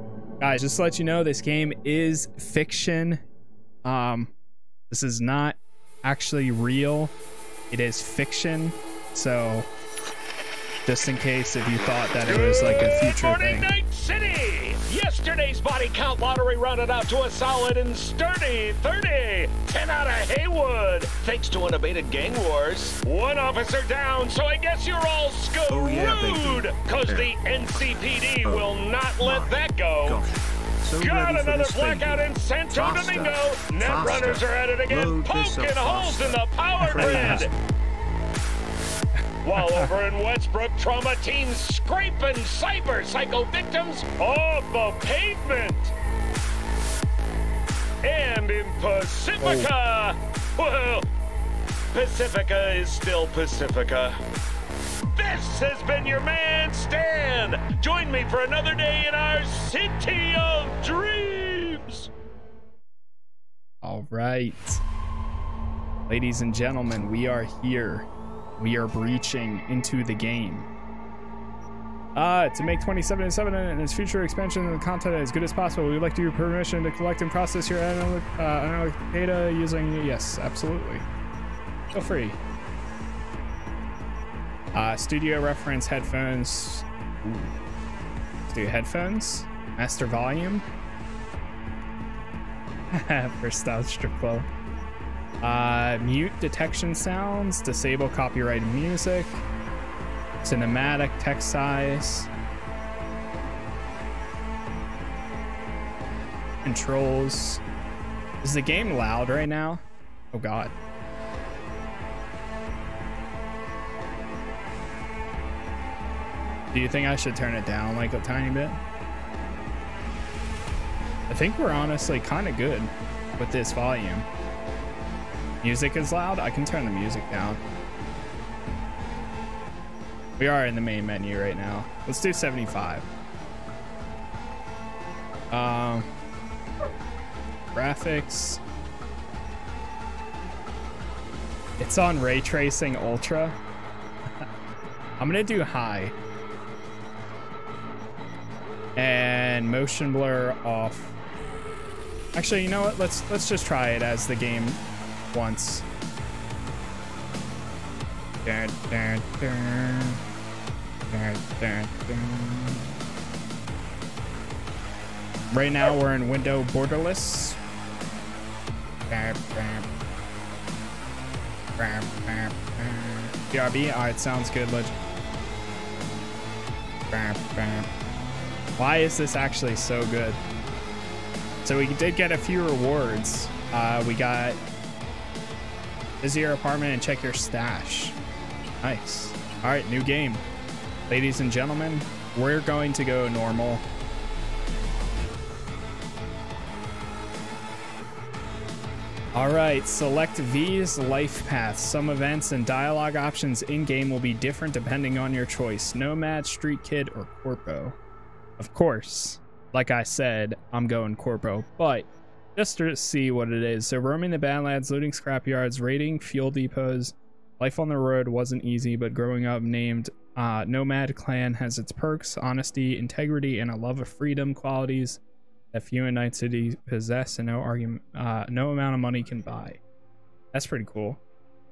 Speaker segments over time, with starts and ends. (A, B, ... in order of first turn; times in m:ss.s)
0:00.4-0:03.2 A
0:03.8-0:04.3 A
0:04.9-0:07.1 A
0:07.7-0:09.7 A
0:10.8-0:13.7 A
0:12.2-0:30.2 B
0:21.5-0:22.4 C
0:25.7-0:37.5 C
0:31.0-0:37.5 B
0:36.8-0:37.5 A
0:39.4-0:45.9 B
0:39.5-0:39.9 A
0:48.0-0:51.1 B
0:49.4-0:49.7 A
0:51.9-0:54.2 B
0:55.2-1:02.1 B
1:03.8-1:04.8 A
1:06.1-1:08.1 A
1:08.6-1:10.7 A
1:12.1-1:21.0 A
1:21.9-1:22.4 A
1:24.7-1:27.5 A
1:28.5-1:30.6 A
1:32.9-1:34.5 A
1:35.4-1:39.4 A
1:40.4-1:42.3 A
1:46.6-1:47.6 A
1:48.4-1:49.8 A
1:50.3-1:50.7 A
1:56.7-1:58.8 A
2:01.3-2:04.2 A
2:05.6-2:07.6 A
2:10.4-2:13.0 A
2:15.5-2:16.1 A
2:17.7-2:18.6 A
2:21.8-2:23.6 A
2:25.2-2:26.1 A
2:29.0-2:31.1 A
2:32.3-2:34.8 A
2:35.3-2:35.8 A
2:38.4-2:40.2 A
2:41.1-2:42.8 A
2:45.5-2:47.6 A
2:49.1-2:49.9 A
2:51.8-2:55.0 A
2:57.1-2:57.9 A
2:58.8-3:00.4 A
3:01.6-3:04.6 A
3:06.2-3:08.2 A
3:08.8-3:10.4 A
3:11.1-3:13.8 A
3:19.3-3:28.0 A
3:28.6-3:45.2 A
3:45.7-3:49.8 A
3:50.5-3:51.2 A